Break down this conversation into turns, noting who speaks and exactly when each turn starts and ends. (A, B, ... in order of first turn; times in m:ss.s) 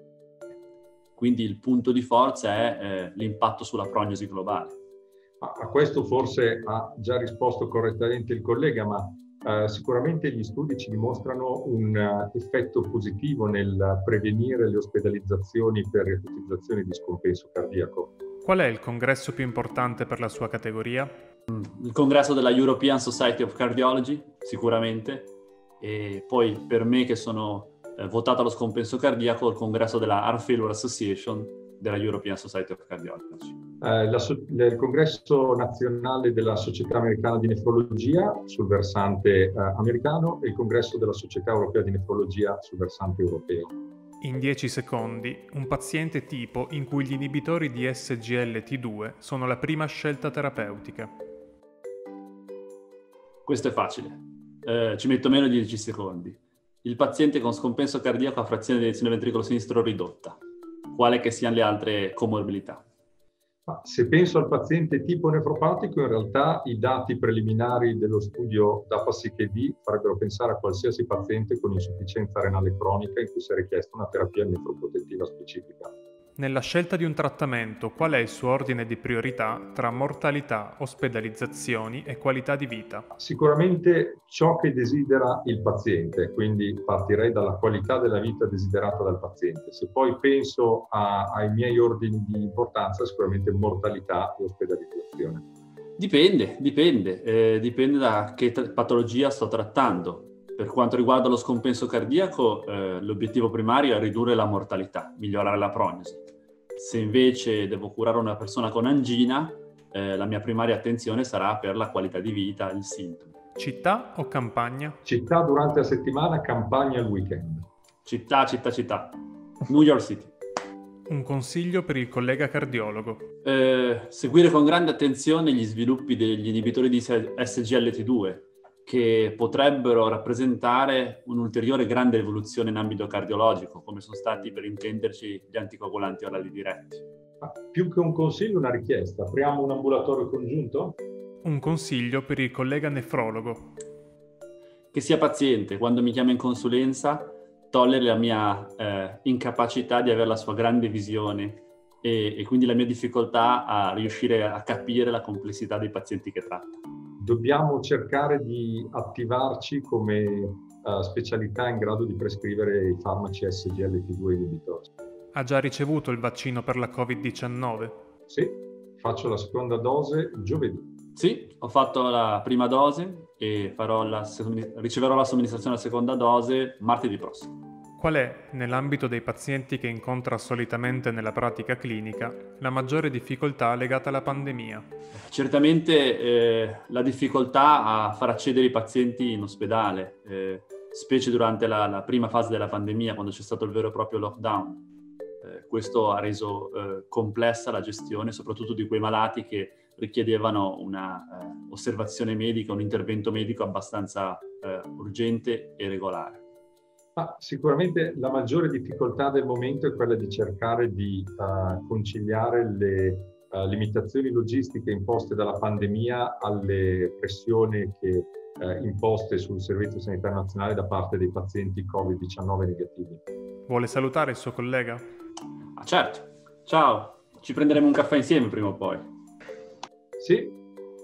0:01.2-0:04.7 A
0:05.4-0:18.1 B
0:18.4-0:21.1 C
0:21.5-0:33.6 A
0:33.8-0:43.7 B
0:44.2-0:51.1 C
0:53.4-1:00.4 A
1:00.9-1:02.8 A
1:03.7-1:15.9 B
1:16.4-1:23.1 C
1:23.2-1:35.4 B
1:36.0-1:46.2 A
1:46.8-1:53.3 A
1:53.6-1:55.0 C
1:55.0-1:57.7 B
1:58.0-2:00.3 A
2:01.1-2:03.3 C
2:03.4-2:17.0 A
2:17.4-2:21.0 B
2:21.4-2:23.7 C
2:24.9-2:36.8 A
2:37.2-2:44.9 B
2:45.3-2:48.0 C
2:48.3-2:50.8 B
2:51.2-2:57.5 A
2:58.0-3:04.9 C
3:05.3-3:14.8 A
3:15.4-3:26.4 A
3:27.2-3:43.2 B
3:43.7-3:45.0 C
3:45.8-3:49.0 A
3:50.2-3:50.5 B